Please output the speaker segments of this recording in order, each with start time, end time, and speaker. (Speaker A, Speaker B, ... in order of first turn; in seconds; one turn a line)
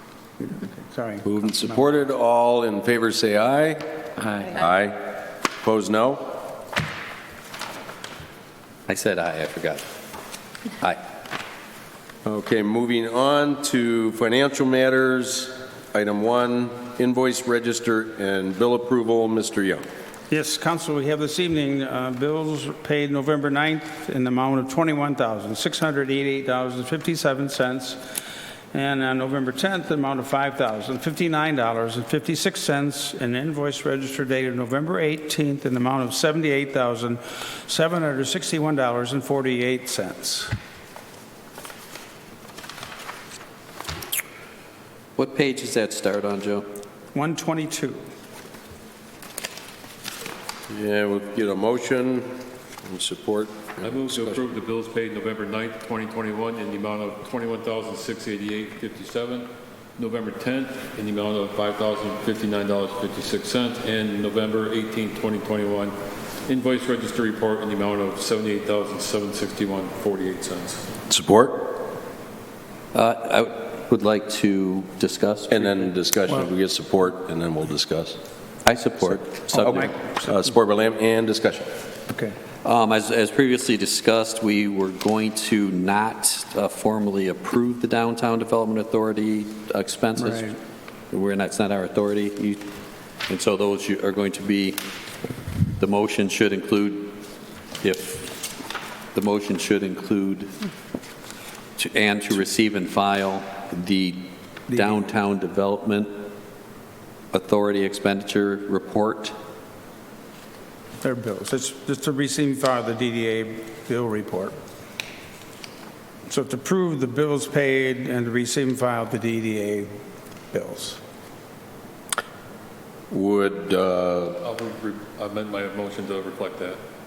Speaker A: 0.4-1.8
Speaker B: 1.2-3.9
Speaker C: 4.2-4.6
Speaker B: 4.5-6.4
Speaker C: 8.9-9.8
Speaker B: 12.2-19.8
Speaker A: 20.3-28.2
Speaker A: 28.7-40.5
Speaker C: 45.2-46.7
Speaker A: 47.1-48.0
Speaker B: 50.7-54.5
Speaker D: 53.8-66.0
Speaker D: 66.5-70.9
Speaker B: 71.1-71.8
Speaker C: 72.9-75.9
Speaker B: 75.5-78.2
Speaker C: 78.7-80.0
Speaker B: 79.5-81.7
Speaker A: 79.6-80.3
Speaker C: 82.6-90.5
Speaker A: 90.2-90.6
Speaker C: 91.1-92.7
Speaker C: 93.3-94.8
Speaker C: 95.8-97.2
Speaker C: 97.8-98.5
Speaker C: 99.1-100.5
Speaker C: 101.8-106.1
Speaker A: 104.7-105.0
Speaker C: 107.3-109.3
Speaker A: 111.0-114.6
Speaker A: 116.3-119.9
Speaker A: 120.5-121.0
Speaker B: 123.1-124.4
Speaker D: 124.4-126.8